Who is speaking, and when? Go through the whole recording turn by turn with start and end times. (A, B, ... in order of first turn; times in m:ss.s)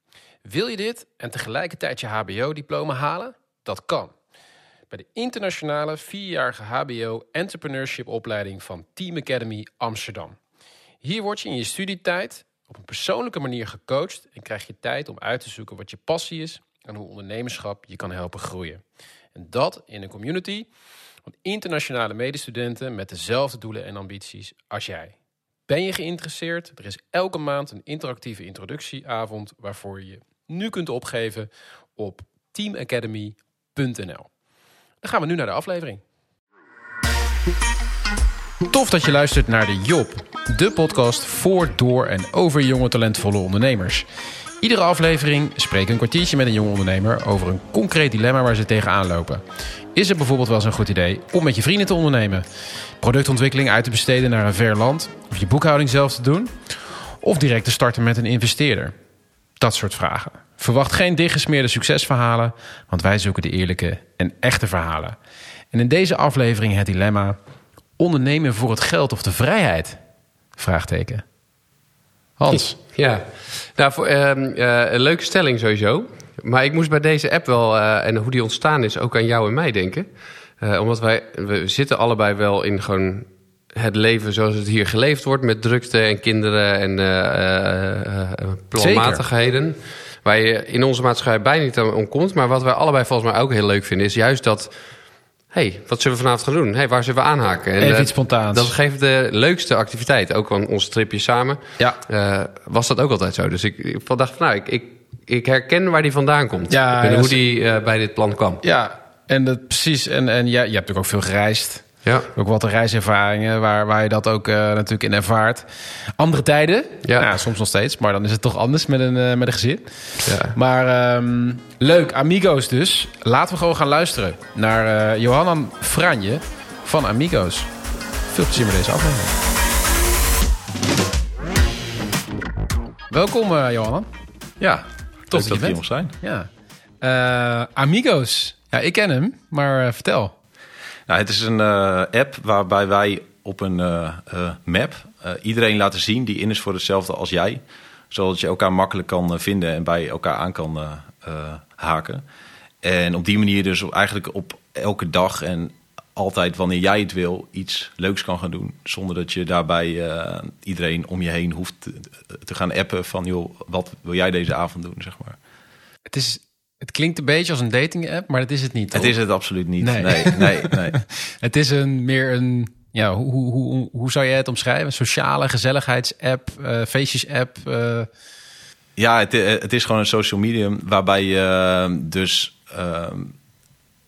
0:00.4-0:04.1 A
0:04.9-0:10.4 A
0:11.0-0:18.8 A
0:19.3-0:20.7 A
0:21.3-0:25.2 A
0:25.7-0:34.3 A
0:35.0-0:36.0 A
0:38.7-0:44.0 A
0:44.6-0:49.4 A
0:49.9-0:52.4 A
0:53.0-0:58.9 A
0:59.6-1:05.2 A
1:05.7-1:07.4 A
1:08.0-1:10.0 A
1:10.6-1:11.2 A
1:12.4-1:12.8 A
1:12.5-1:20.1 B
1:20.6-1:34.7 B
1:28.8-1:29.2 A
1:35.5-1:48.6 B
1:37.8-1:38.7 A
1:46.7-1:47.4 A
1:48.6-1:55.6 A
1:56.2-2:07.7 A
2:00.2-2:00.5 B
2:08.3-2:09.3 A
2:13.1-2:14.1 A
2:14.6-2:16.1 C
2:15.3-2:16.5 A
2:17.0-2:20.3 A
2:21.1-2:32.2 C
2:32.8-2:45.4 C
2:46.1-2:49.1 A
2:48.9-2:51.0 C
2:49.8-2:58.1 A
2:59.0-3:03.3 C